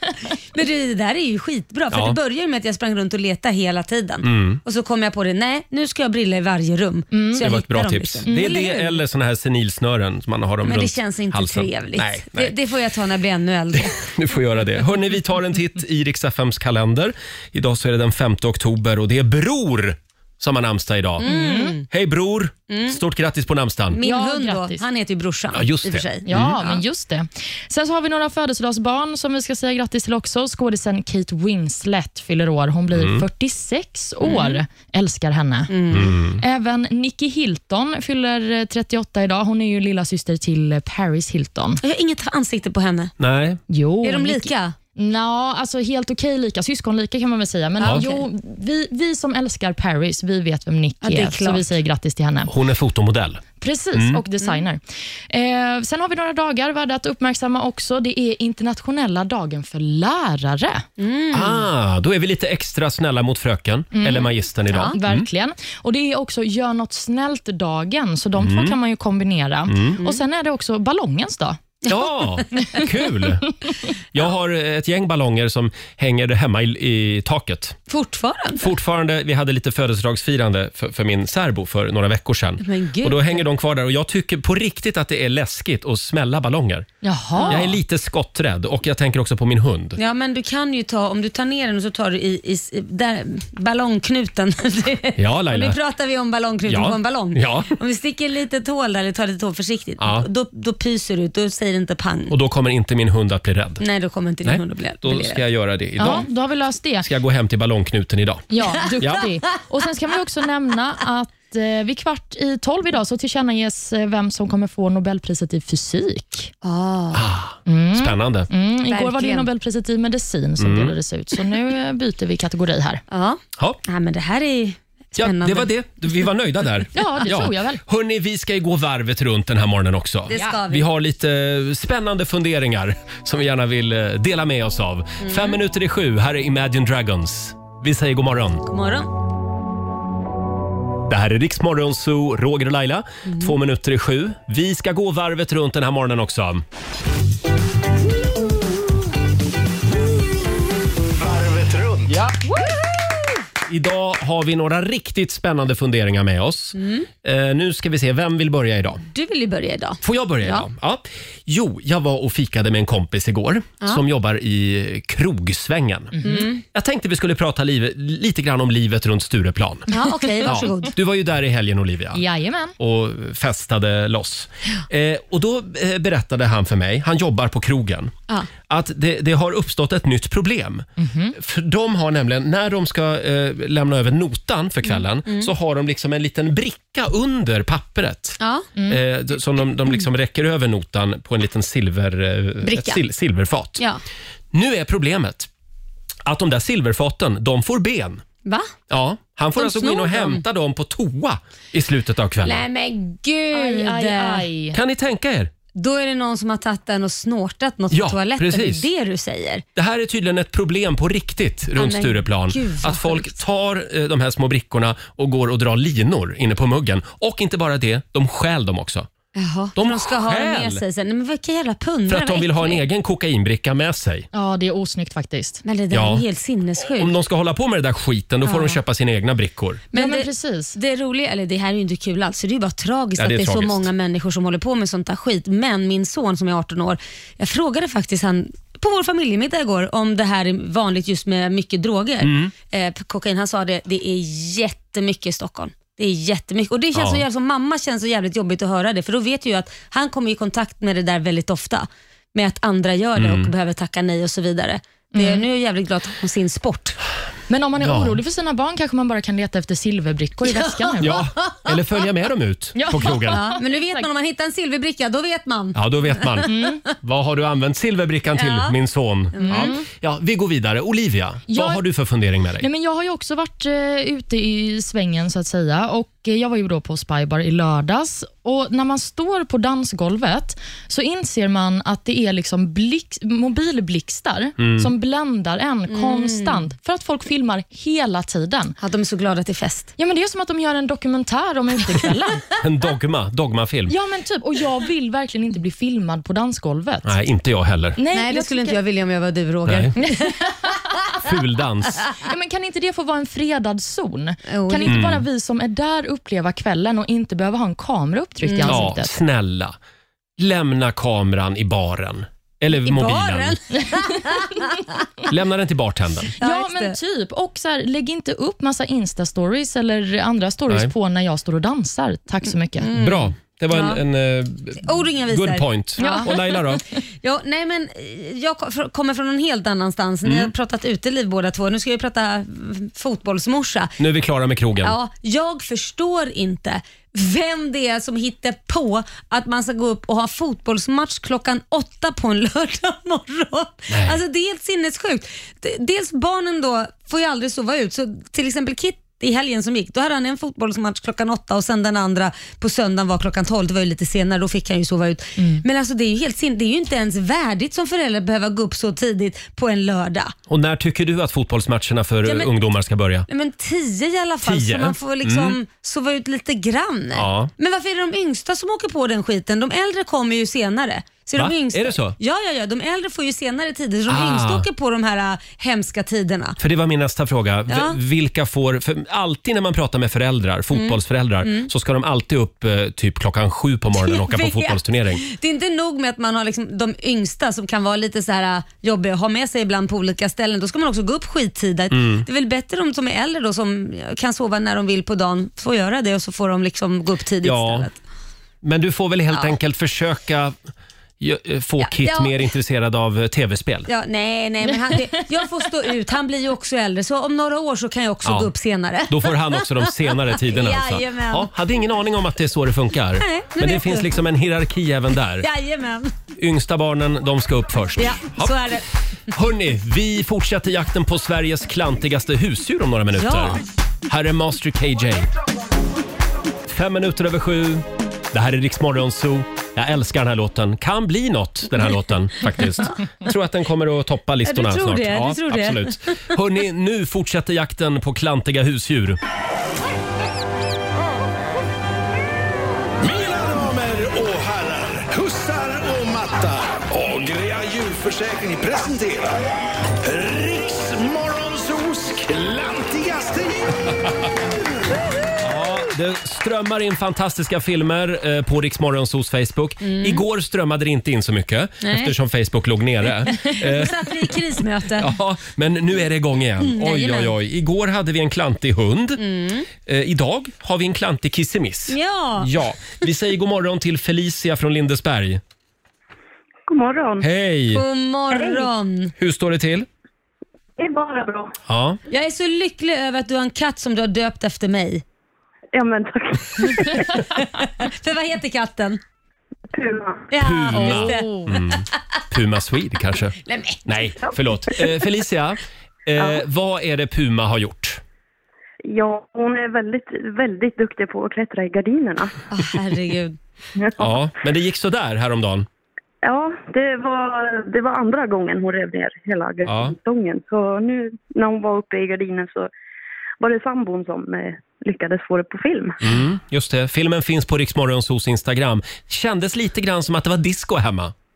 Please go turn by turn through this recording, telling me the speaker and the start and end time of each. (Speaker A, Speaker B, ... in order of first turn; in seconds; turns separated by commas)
Speaker A: 0.5-9.0, Speaker B: 1.9-2.2, Speaker B: 4.2-4.6, Speaker C: 7.1-7.4, Speaker B: 7.4-12.6, Speaker C: 8.3-8.6, Speaker A: 10.6-14.0, Speaker B: 13.7-21.3, Speaker A: 21.2-21.9, Speaker C: 21.2-21.7, Speaker B: 21.9-24.0, Speaker A: 22.7-23.0, Speaker A: 23.9-26.8, Speaker C: 24.0-24.8, Speaker B: 25.5-26.6, Speaker C: 26.3-35.7, Speaker B: 32.9-33.3, Speaker A: 34.2-34.6, Speaker A: 35.7-36.1, Speaker B: 35.9-36.4, Speaker C: 36.4-41.8, Speaker A: 41.8-43.1, Speaker B: 43.2-43.6, Speaker C: 43.7-52.5, Speaker A: 44.0-44.8, Speaker A: 47.8-48.2, Speaker A: 51.0-51.8, Speaker B: 52.5-53.4, Speaker C: 53.6-60.9, Speaker B: 53.9-54.2, Speaker A: 61.0-61.6, Speaker B: 61.3-65.3, Speaker C: 63.9-71.6, Speaker B: 68.4-68.8, Speaker B: 69.7-70.0, Speaker B: 71.9-73.5, Speaker B: 74.1-77.8, Speaker A: 77.9-78.7, Speaker B: 78.6-86.9, Speaker A: 82.6-83.4, Speaker C: 87.0-87.7, Speaker A: 87.4-87.7, Speaker B: 87.5-90.0, Speaker A: 90.0-102.3, Speaker B: 95.2-95.8, Speaker B: 96.7-97.7, Speaker B: 100.0-100.3, Speaker B: 102.3-103.8, Speaker A: 103.8-105.4, Speaker B: 104.4-106.3, Speaker C: 106.0-107.1, Speaker B: 107.0-109.3, Speaker C: 108.5-116.5, Speaker A: 116.6-117.2, Speaker B: 117.1-118.5, Speaker C: 117.7-123.0, Speaker A: 118.9-119.5, Speaker B: 120.6-121.0, Speaker A: 123.1-125.7, Speaker B: 125.2-138.6, Speaker C: 126.9-127.8, Speaker A: 130.3-130.9, Speaker A: 135.2-135.6, Speaker A: 138.7-139.1, Speaker B: 141.1-146.7, Speaker A: 143.3-143.6, Speaker D: 151.2-152.1, Speaker B: 153.7-159.0, Speaker A: 156.8-157.1, Speaker A: 159.1-160.7, Speaker B: 160.0-169.9, Speaker C: 166.2-166.5, Speaker A: 166.2-166.6, Speaker A: 169.9-170.9, Speaker B: 170.4-172.2, Speaker C: 172.1-172.8, Speaker B: 172.8-178.1, Speaker B: 178.7-193.8, Speaker C: 181.0-181.4, Speaker A: 184.9-185.5, Speaker A: 188.4-188.7, Speaker A: 192.6-193.0, Speaker B: 194.5-195.5, Speaker B: 196.2-198.2, Speaker A: 198.4-198.7, Speaker B: 198.9-202.7, Speaker A: 199.6-200.4, Speaker A: 202.4-204.5, Speaker C: 203.5-204.8, Speaker B: 204.7-205.5, Speaker A: 205.8-209.6, Speaker B: 207.9-208.9, Speaker B: 209.8-219.1, Speaker A: 211.8-213.4, Speaker A: 219.3-222.8, Speaker B: 219.8-220.8, Speaker B: 222.1-224.3, Speaker C: 224.3-225.6, Speaker A: 225.7-227.1, Speaker B: 225.9-226.2, Speaker B: 226.9-229.8, Speaker A: 228.4-228.8, Speaker A: 229.9-257.0, Speaker C: 229.9-230.8, Speaker B: 233.2-233.9, Speaker B: 242.2-242.5, Speaker B: 246.9-247.2, Speaker B: 253.2-253.5, Speaker C: 255.1-255.4, Speaker C: 257.5-261.2, Speaker B: 257.8-258.2, Speaker A: 260.4-261.7, Speaker B: 261.0-263.4, Speaker C: 262.8-264.1, Speaker A: 263.3-266.5, Speaker B: 265.8-272.7, Speaker C: 266.5-266.8, Speaker A: 268.4-268.8, Speaker A: 269.4-269.8, Speaker C: 269.4-269.8, Speaker C: 271.5-271.8, Speaker C: 272.6-288.8, Speaker B: 284.6-284.9, Speaker A: 285.9-286.6, Speaker A: 288.8-289.9, Speaker C: 290.0-292.4, Speaker B: 292.6-293.9, Speaker C: 293.9-297.1, Speaker B: 297.0-298.0, Speaker C: 298.0-298.8, Speaker A: 298.1-300.5, Speaker B: 299.7-299.9, Speaker C: 300.1-300.8, Speaker B: 301.2-302.1, Speaker C: 302.2-309.1, Speaker A: 304.5-305.0, Speaker B: 304.9-305.2, Speaker A: 308.4-308.9, Speaker B: 308.7-309.8, Speaker B: 310.4-313.6, Speaker A: 312.8-314.8, Speaker C: 314.3-314.7, Speaker B: 315.3-316.3, Speaker A: 316.4-317.0, Speaker C: 316.4-322.9, Speaker A: 322.8-324.0, Speaker B: 323.0-326.8, Speaker A: 324.8-326.5, Speaker C: 326.0-326.3, Speaker A: 327.2-334.0, Speaker B: 330.2-330.5, Speaker B: 334.0-335.0, Speaker A: 334.8-360.3, Speaker B: 343.9-344.2, Speaker C: 355.4-355.6, Speaker B: 360.5-363.3, Speaker A: 362.2-362.5, Speaker A: 363.3-376.6, Speaker B: 364.4-365.6, Speaker B: 367.1-367.5, Speaker B: 371.4-372.2, Speaker B: 374.1-374.7, Speaker B: 376.6-385.2, Speaker A: 377.7-378.0, Speaker A: 380.7-381.7, Speaker A: 384.0-397.9, Speaker B: 391.9-392.3, Speaker B: 397.4-397.9, Speaker B: 398.6-400.6, Speaker B: 401.2-403.9, Speaker A: 401.8-402.4, Speaker A: 403.9-411.5, Speaker B: 408.2-408.5, Speaker B: 409.1-415.5, Speaker A: 413.2-414.1, Speaker A: 415.4-416.1, Speaker B: 416.4-418.8, Speaker A: 418.0-418.9, Speaker B: 419.3-425.3, Speaker A: 423.2-423.6, Speaker B: 426.7-439.2, Speaker A: 434.4-436.2, Speaker D: 443.0-449.4, Speaker D: 450.0-453.8, Speaker B: 455.4-464.3, Speaker A: 459.8-460.2, Speaker A: 461.8-462.1, Speaker A: 463.3-465.1, Speaker B: 465.0-469.2, Speaker A: 466.6-467.3, Speaker A: 469.2-469.7, Speaker B: 469.8-475.4, Speaker A: 471.9-472.5, Speaker E: 476.7-477.3, Speaker B: 477.2-477.8, Speaker A: 477.7-479.1, Speaker E: 478.4-478.7, Speaker B: 479.2-479.9, Speaker E: 480.8-481.5, Speaker B: 481.7-482.0, Speaker A: 482.1-485.0, Speaker E: 485.7-487.2, Speaker A: 487.4-489.0, Speaker E: 489.7-490.3, Speaker A: 490.3-491.8, Speaker B: 490.4-498.0, Speaker C: 490.7-491.5, Speaker A: 493.5-493.9, Speaker E: 498.9-502.4, Speaker A: 502.5-503.4, Speaker E: 503.8-504.2, Speaker B: 504.0-505.7, Speaker E: 506.2-512.7, Speaker B: 509.6-509.9, Speaker E: 513.4-516.0, Speaker B: 516.0-521.1